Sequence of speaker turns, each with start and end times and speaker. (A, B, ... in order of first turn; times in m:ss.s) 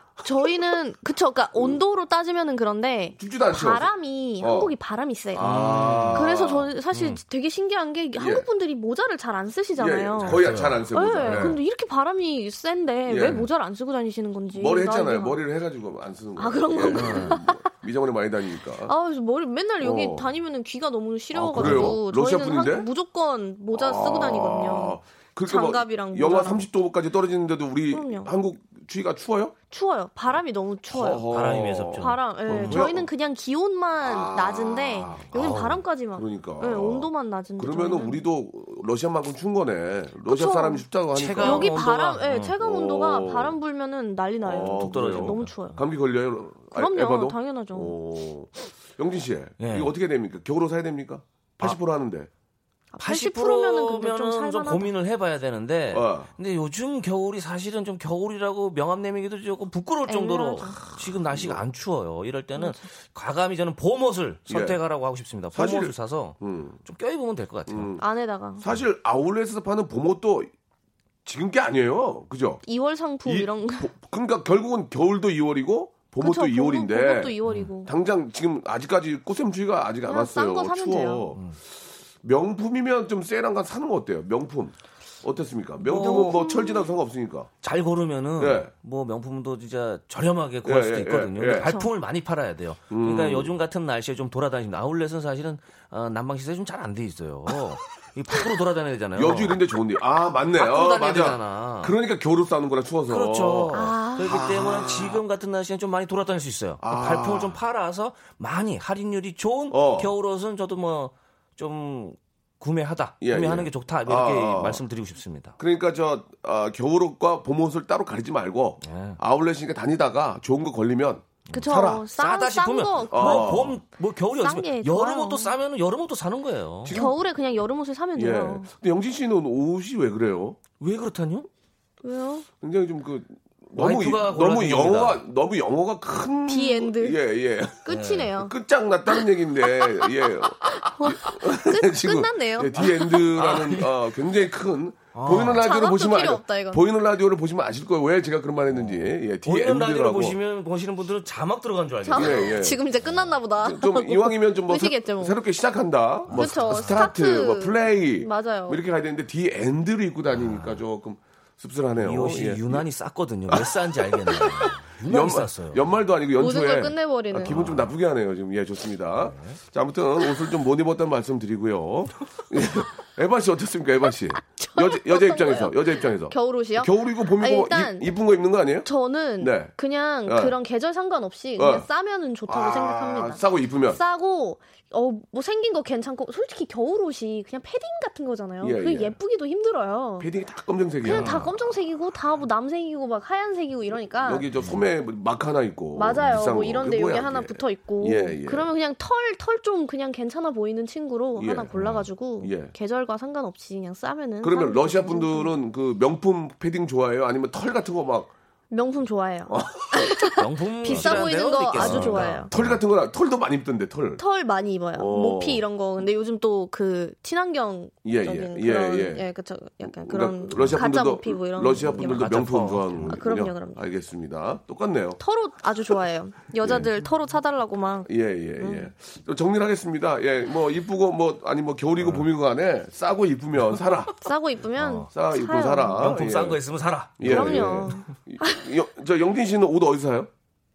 0:00.2-0:05.5 A
0:03.2-0:04.7 B
0:05.3-0:06.7 B
0:05.4-0:06.2 C
0:06.1-0:15.4 A
0:06.9-0:07.2 C
0:08.2-0:08.5 B
0:09.8-0:11.6 B
0:10.2-0:11.6 C
0:13.1-0:13.4 B
0:14.5-0:18.9 B
0:16.4-0:17.6 A
0:16.8-0:17.4 C
0:18.8-0:26.7 A
0:19.8-0:20.3 B
0:21.3-0:22.9 B
0:21.5-0:22.0 C
0:23.7-0:29.5 B
0:27.9-0:28.3 A
0:29.7-0:31.2 A
0:30.9-0:33.1 B
0:31.3-0:32.8 C
0:32.0-0:38.2 A
0:34.0-0:35.4 B
0:35.3-0:35.8 C
0:36.1-0:41.8 B
0:40.2-0:40.9 A
0:41.1-0:42.5 C
0:41.4-0:45.8 A
0:42.6-0:43.6 B
0:44.4-0:52.3 B
0:44.6-0:45.5 C
0:46.7-0:47.9 A
0:49.6-0:49.9 C
0:52.9-0:54.9 A
0:53.0-1:07.9 C
0:55.9-0:56.3 B
1:00.1-1:00.8 A
1:00.8-1:01.6 B
1:02.6-1:02.8 A
1:04.5-1:04.8 B
1:05.5-1:06.8 B
1:07.7-1:08.0 B
1:08.0-1:08.6 A
1:08.6-1:10.5 B
1:11.2-1:12.6 B
1:12.6-1:13.9 A
1:13.2-1:21.4 B
1:16.2-1:17.9 A
1:20.1-1:21.2 A
1:22.2-1:27.5 B
1:25.8-1:26.4 C
1:25.8-1:26.9 A
1:27.6-1:39.6 C
1:28.4-1:28.7 B
1:30.6-1:31.7 B
1:31.6-1:31.9 A
1:32.9-1:33.5 B
1:39.1-1:45.2 B
1:40.6-1:41.9 C
1:43.1-1:55.6 C
1:43.7-1:44.4 A
1:46.8-1:47.6 B
1:49.7-1:50.1 B
1:53.2-1:54.8 B
1:55.6-2:02.0 B
1:58.8-1:59.2 C
2:01.5-2:07.0 C
2:01.5-2:03.6 A
2:03.1-2:03.8 B
2:04.4-2:05.5 A
2:06.8-2:07.2 B
2:06.9-2:08.7 A
2:08.1-2:10.6 B
2:10.8-2:11.5 C
2:12.0-2:12.5 A
2:12.6-2:30.4 B
2:13.8-2:15.2 C
2:16.5-2:17.2 A
2:17.8-2:18.5 A
2:17.9-2:18.3 C
2:20.6-2:23.2 A
2:23.3-2:23.9 C
2:25.1-2:25.6 C
2:25.5-2:26.8 A
2:28.7-2:33.2 C
2:32.0-2:35.3 A
2:32.1-2:32.8 B
2:33.6-2:42.8 B
2:36.3-2:37.0 C
2:36.3-2:38.8 A
2:40.3-2:40.8 C
2:42.0-2:45.8 C
2:43.5-2:59.7 B
2:46.4-2:47.5 A
2:47.5-2:47.9 C
2:49.2-2:49.6 C
2:54.3-2:58.1 A
2:58.8-3:10.3 A
3:00.2-3:00.6 B
3:01.6-3:01.8 B
3:02.5-3:04.0 B
3:08.6-3:09.2 B
3:10.2-3:11.5 B
3:11.0-3:14.5 A
3:11.0-3:11.5 C
3:14.2-3:18.7 B
3:15.9-3:25.5 A
3:21.4-3:21.8 B
3:21.7-3:22.0 C
3:22.4-3:22.7 B
3:24.4-3:28.3 B
3:28.7-3:32.5 A
3:29.5-3:30.0 B
3:30.4-3:32.8 C
3:30.8-3:34.2 B
3:34.2-3:42.2 A
3:35.0-3:35.6 B
3:38.0-3:39.2 B
3:39.8-3:45.2 B
3:41.9-3:43.1 C
3:43.0-3:43.8 A
3:45.2-3:48.9 A
3:46.6-3:46.9 B
3:48.1-3:54.1 B
3:54.2-3:56.0 A
3:54.8-3:55.1 C
3:55.1-3:56.6 B
3:56.0-3:57.9 C
3:57.2-4:00.3 B
3:57.2-3:58.6 A